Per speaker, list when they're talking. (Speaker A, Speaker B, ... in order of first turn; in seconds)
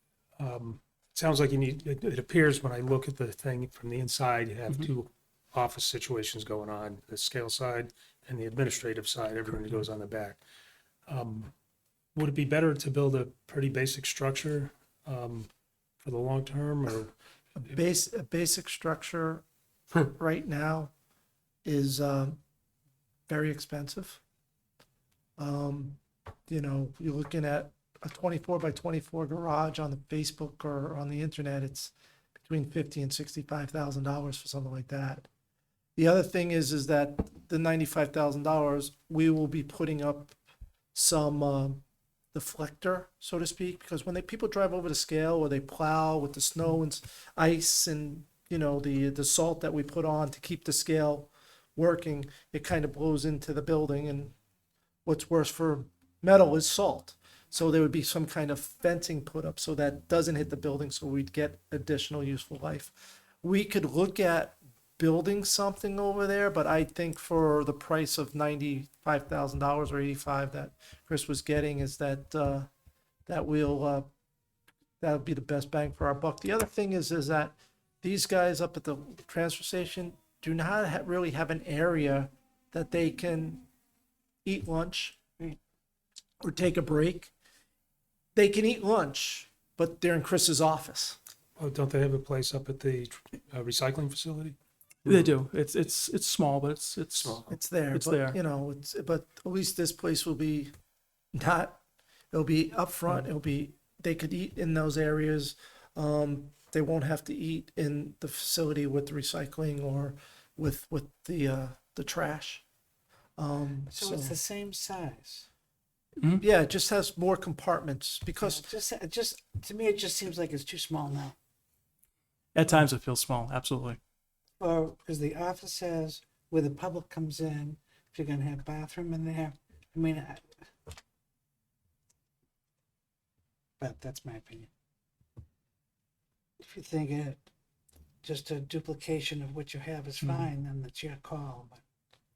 Speaker A: 0.4-10.4, 11.1-11.5, 12.2-15.5, 16.0-17.1, 91.6-95.3, 97.1-97.5
Speaker B: 17.6-20.9, 21.6-22.4, 23.3-24.2, 25.4-31.9, 32.5-35.3, 36.0-40.4, 40.9-41.8, 42.3-54.3, 55.1-72.7, 73.3-74.1, 75.0-83.7, 84.5-85.2, 86.4-87.3, 88.3-91.2, 97.5-100.7, 101.3-101.8, 102.3-112.6, 113.4-114.4, 116.4-118.7
Speaker C: 95.1-98.4, 122.5-124.0, 140.2-140.5
Speaker D: 113.9-115.5, 118.4-121.4, 124.6-130.5, 133.8-134.7, 136.6-137.4, 138.2-141.8